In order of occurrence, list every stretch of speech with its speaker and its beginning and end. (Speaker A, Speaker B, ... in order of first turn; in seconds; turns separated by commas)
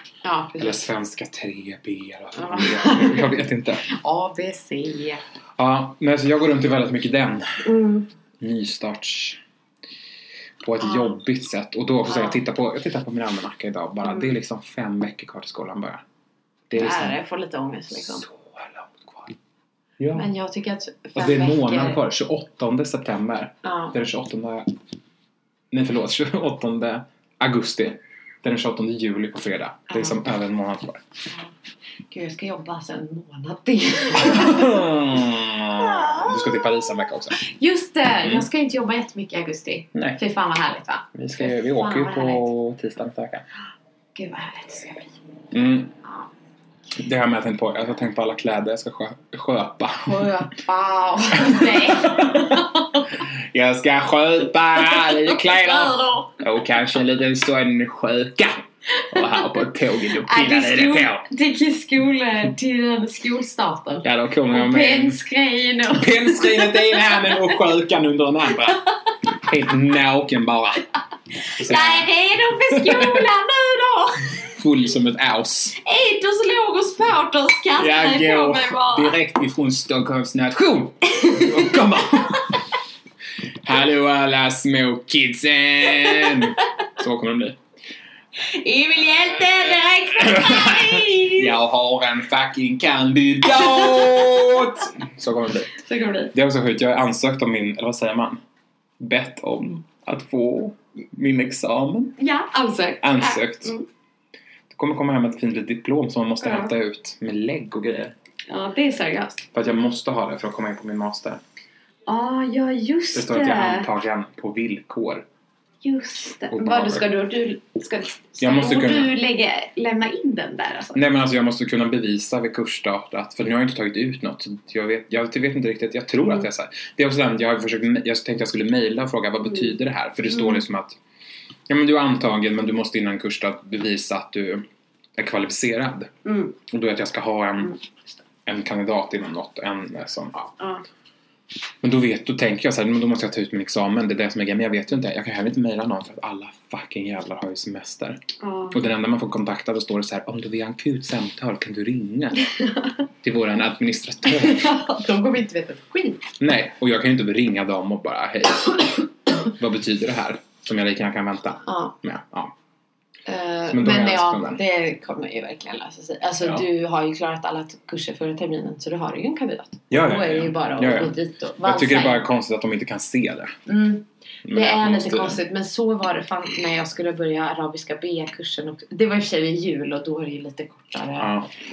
Speaker A: 0.2-0.8, Speaker B: 0.6-3.8, Speaker A: 2.3-5.2, Speaker B: 5.6-7.7, Speaker A: 7.6-8.1, Speaker B: 8.4-9.4, Speaker B: 10.6-16.0, Speaker A: 10.8-11.1, Speaker A: 12.1-12.4, Speaker A: 14.0-14.3, Speaker B: 16.7-17.2, Speaker A: 16.7-18.2, Speaker B: 17.9-19.4, Speaker B: 20.0-20.3, Speaker A: 20.1-22.0, Speaker B: 21.1-24.7, Speaker A: 23.6-23.9, Speaker B: 25.7-31.0, Speaker A: 29.9-30.2, Speaker A: 32.1-34.8, Speaker B: 34.2-37.4, Speaker A: 35.7-36.6, Speaker A: 37.4-42.5, Speaker B: 39.9-40.2, Speaker B: 41.1-43.4, Speaker A: 44.1-45.1, Speaker B: 45.5-45.9, Speaker B: 47.0-50.3, Speaker A: 50.0-53.1, Speaker B: 51.3-52.6, Speaker B: 53.2-61.2, Speaker A: 54.8-56.4, Speaker A: 59.0-59.5, Speaker A: 60.2-67.5, Speaker B: 64.0-65.2, Speaker B: 65.9-68.8, Speaker B: 69.3-70.9, Speaker A: 71.5-74.5, Speaker B: 71.6-73.3, Speaker B: 74.4-75.8, Speaker A: 75.8-79.1, Speaker B: 77.7-82.5, Speaker A: 81.1-82.4, Speaker B: 83.6-87.6, Speaker A: 88.4-91.5, Speaker B: 89.5-95.8, Speaker A: 93.7-94.4, Speaker A: 95.8-96.3, Speaker B: 96.3-98.4, Speaker B: 99.0-102.1, Speaker A: 102.2-103.8, Speaker B: 103.0-103.7, Speaker B: 104.7-108.1, Speaker A: 106.4-106.7, Speaker A: 108.5-109.5, Speaker B: 109.5-111.4, Speaker A: 112.1-113.9, Speaker B: 113.1-115.2, Speaker A: 115.8-121.0, Speaker B: 116.5-117.1, Speaker B: 118.4-119.1, Speaker B: 120.9-131.0, Speaker B: 131.7-136.1, Speaker A: 136.2-136.6, Speaker B: 136.7-137.8, Speaker B: 138.4-140.5, Speaker A: 140.6-140.8, Speaker B: 141.8-148.2, Speaker A: 148.4-148.8, Speaker B: 148.7-152.4, Speaker B: 153.2-154.7, Speaker A: 154.3-156.2, Speaker B: 156.4-162.5, Speaker A: 161.7-161.9, Speaker A: 163.3-172.2, Speaker B: 163.7-164.6, Speaker B: 169.9-173.5, Speaker A: 173.7-181.3, Speaker B: 174.4-175.4, Speaker B: 181.2-181.5